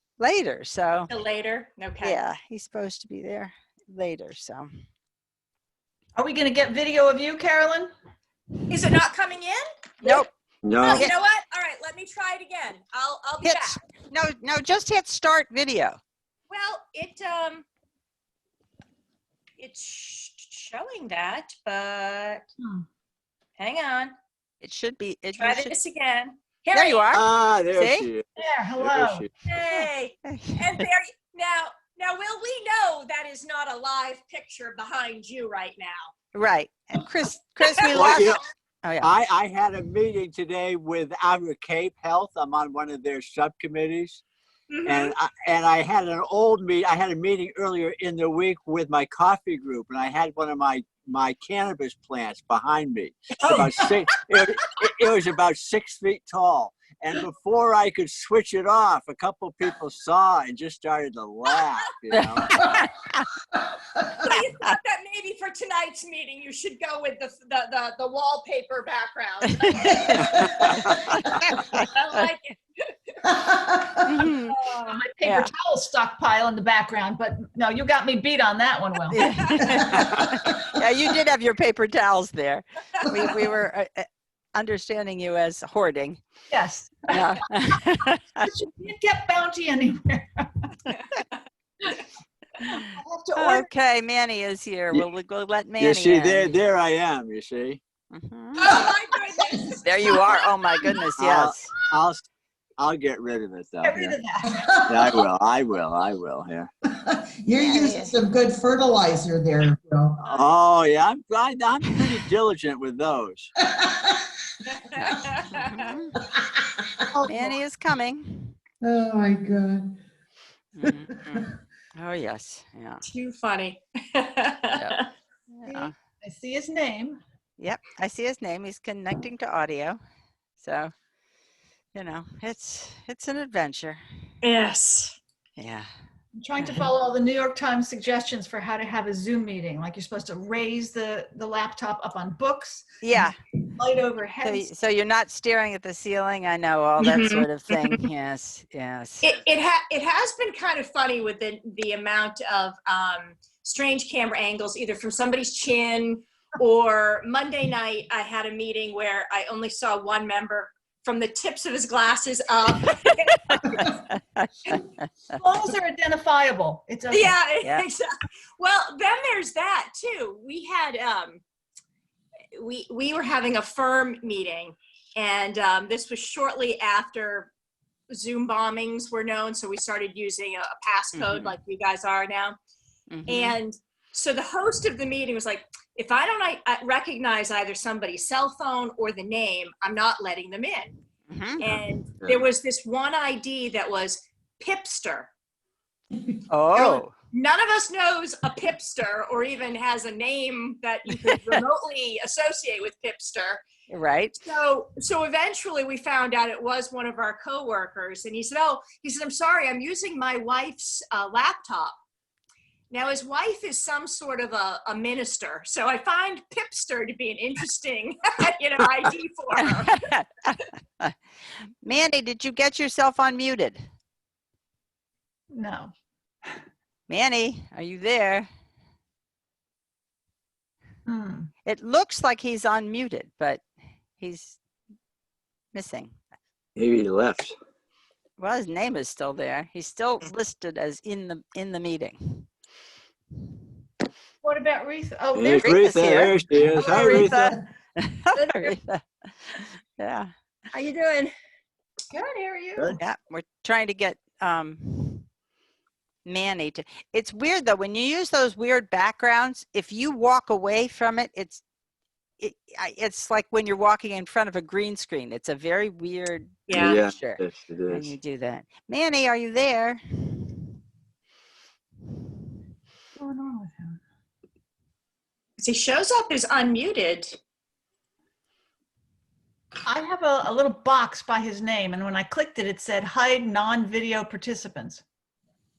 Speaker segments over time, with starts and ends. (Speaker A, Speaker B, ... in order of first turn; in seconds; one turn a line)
Speaker A: 0.2-1.1
Speaker B: 1.1-2.2
Speaker A: 2.0-4.7
Speaker C: 6.2-7.9
Speaker B: 8.7-10.3
Speaker D: 10.6-11.1
Speaker B: 10.8-13.8
Speaker A: 13.4-16.0
Speaker B: 16.5-17.7
Speaker B: 19.6-22.5
Speaker C: 22.6-22.9
Speaker B: 23.6-24.1
Speaker A: 24.6-25.7
Speaker B: 25.4-27.1
Speaker A: 26.7-28.1
Speaker D: 27.1-28.3
Speaker C: 28.4-29.3
Speaker D: 28.8-29.3
Speaker B: 29.5-36.1
Speaker A: 30.3-30.8
Speaker A: 36.3-39.1
Speaker B: 37.6-38.2
Speaker D: 37.9-38.4
Speaker D: 39.0-44.2
Speaker B: 44.7-45.1
Speaker D: 44.9-62.6
Speaker A: 62.1-63.2
Speaker B: 64.2-73.3
Speaker A: 69.7-71.9
Speaker E: 70.1-70.5
Speaker E: 73.3-74.0
Speaker A: 74.0-74.5
Speaker B: 74.3-75.0
Speaker C: 74.7-80.1
Speaker A: 75.2-75.5
Speaker A: 79.1-86.2
Speaker B: 79.2-79.7
Speaker C: 86.5-87.4
Speaker A: 87.1-88.5
Speaker C: 88.4-90.7
Speaker C: 92.7-93.7
Speaker A: 93.3-96.5
Speaker D: 95.8-97.8
Speaker A: 98.1-98.7
Speaker B: 98.6-100.3
Speaker A: 99.8-101.7
Speaker D: 101.2-104.2
Speaker C: 103.8-104.6
Speaker E: 104.5-105.2
Speaker D: 104.9-106.7
Speaker E: 107.0-110.3
Speaker A: 107.6-108.1
Speaker D: 110.3-113.5
Speaker E: 113.7-114.2
Speaker B: 114.9-115.8
Speaker A: 115.5-116.2
Speaker A: 117.3-118.6
Speaker E: 118.8-120.0
Speaker A: 120.8-123.0
Speaker E: 120.8-121.5
Speaker B: 123.0-125.1
Speaker A: 124.8-125.0
Speaker A: 125.5-125.9
Speaker C: 125.7-127.2
Speaker A: 127.6-130.0
Speaker A: 130.6-130.9
Speaker A: 131.9-134.0
Speaker B: 134.4-135.2
Speaker A: 135.6-135.9
Speaker C: 136.3-144.7
Speaker A: 136.6-136.9
Speaker A: 143.0-143.3
Speaker A: 144.4-149.4
Speaker B: 147.0-148.0
Speaker B: 149.2-164.0
Speaker A: 163.8-164.8
Speaker C: 165.3-167.4
Speaker B: 167.1-168.1
Speaker B: 168.6-171.4
Speaker B: 172.6-177.5
Speaker B: 178.1-182.6
Speaker A: 181.2-181.6
Speaker A: 183.1-183.6
Speaker B: 183.3-190.9
Speaker A: 191.3-191.8
Speaker B: 191.6-195.3
Speaker A: 196.5-197.1
Speaker B: 196.7-203.6
Speaker A: 201.3-201.6
Speaker A: 203.9-204.3
Speaker B: 204.4-212.0
Speaker B: 212.9-220.0
Speaker A: 219.6-221.1
Speaker A: 221.8-223.8
Speaker C: 225.5-225.9
Speaker A: 227.1-228.5
Speaker C: 231.1-231.5
Speaker A: 231.7-233.6
Speaker A: 234.2-234.6
Speaker A: 235.7-236.1
Speaker D: 236.8-237.6
Speaker A: 238.4-242.5
Speaker C: 244.4-245.8
Speaker D: 245.3-247.6
Speaker A: 245.6-250.3
Speaker B: 248.3-248.8
Speaker B: 250.7-251.3
Speaker C: 252.1-253.0
Speaker A: 253.0-255.3
Speaker A: 256.3-261.6
Speaker A: 262.4-270.5
Speaker B: 266.7-267.0
Speaker D: 266.7-268.1
Speaker C: 273.2-274.0
Speaker B: 275.6-277.4
Speaker C: 279.9-285.0